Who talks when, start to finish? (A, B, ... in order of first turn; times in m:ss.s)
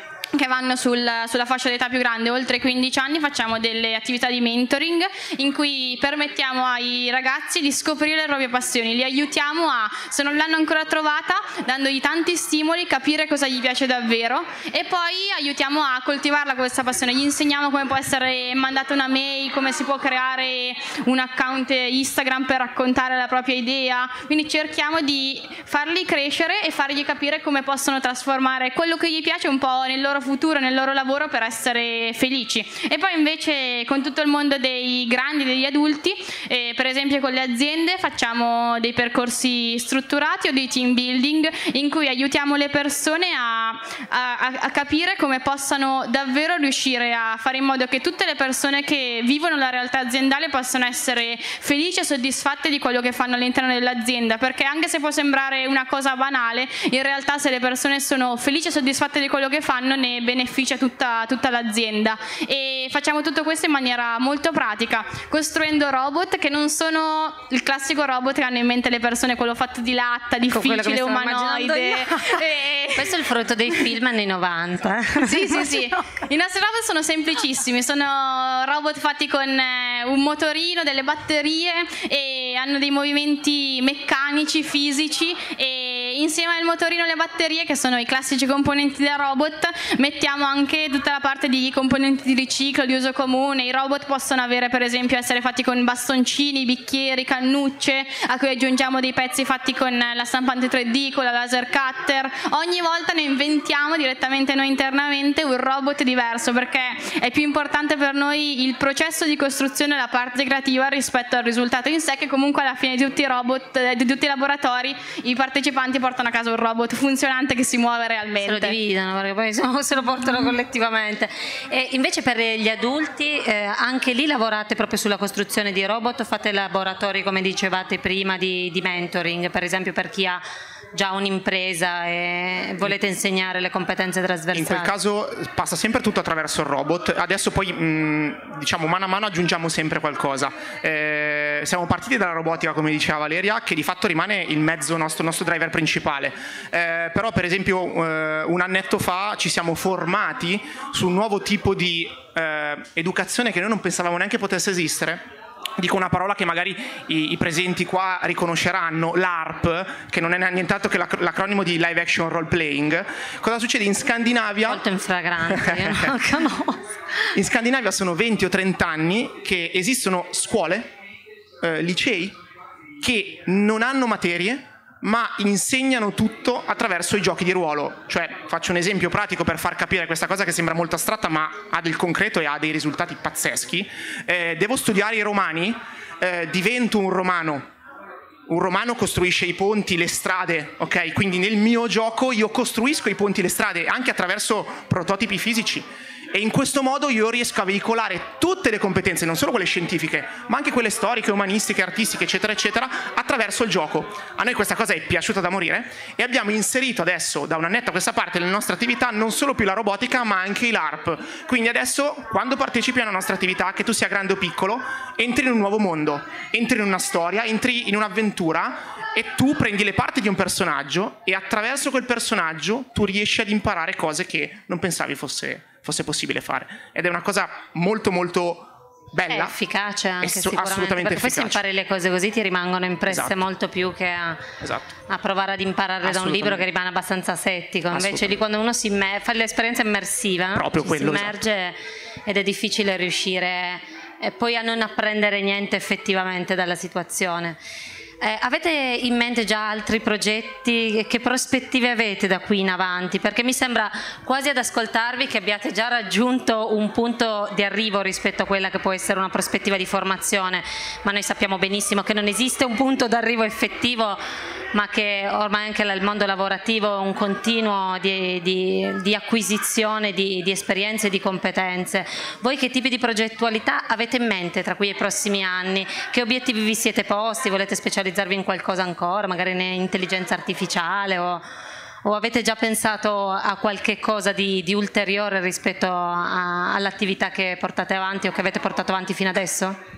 0:00.3-1:13.2 A
1:10.5-1:15.8 B
1:15.2-1:58.8 A
1:58.4-2:14.9 B
2:14.5-2:35.3 C
2:35.8-2:44.8 C
2:44.6-2:47.3 B
2:45.5-2:46.1 C
2:47.4-2:50.9 C
2:51.6-2:52.4 C
2:53.0-3:07.7 C
3:08.5-3:49.5 C
3:49.3-3:54.5 B
3:50.2-3:51.6 C
3:53.1-3:53.4 C
3:54.6-3:54.9 C
3:55.1-4:07.6 B
3:56.0-3:56.6 C
3:57.9-3:58.3 C
4:00.6-4:01.4 C
4:08.2-4:24.2 B
4:24.7-4:41.4 B
4:42.0-4:49.8 B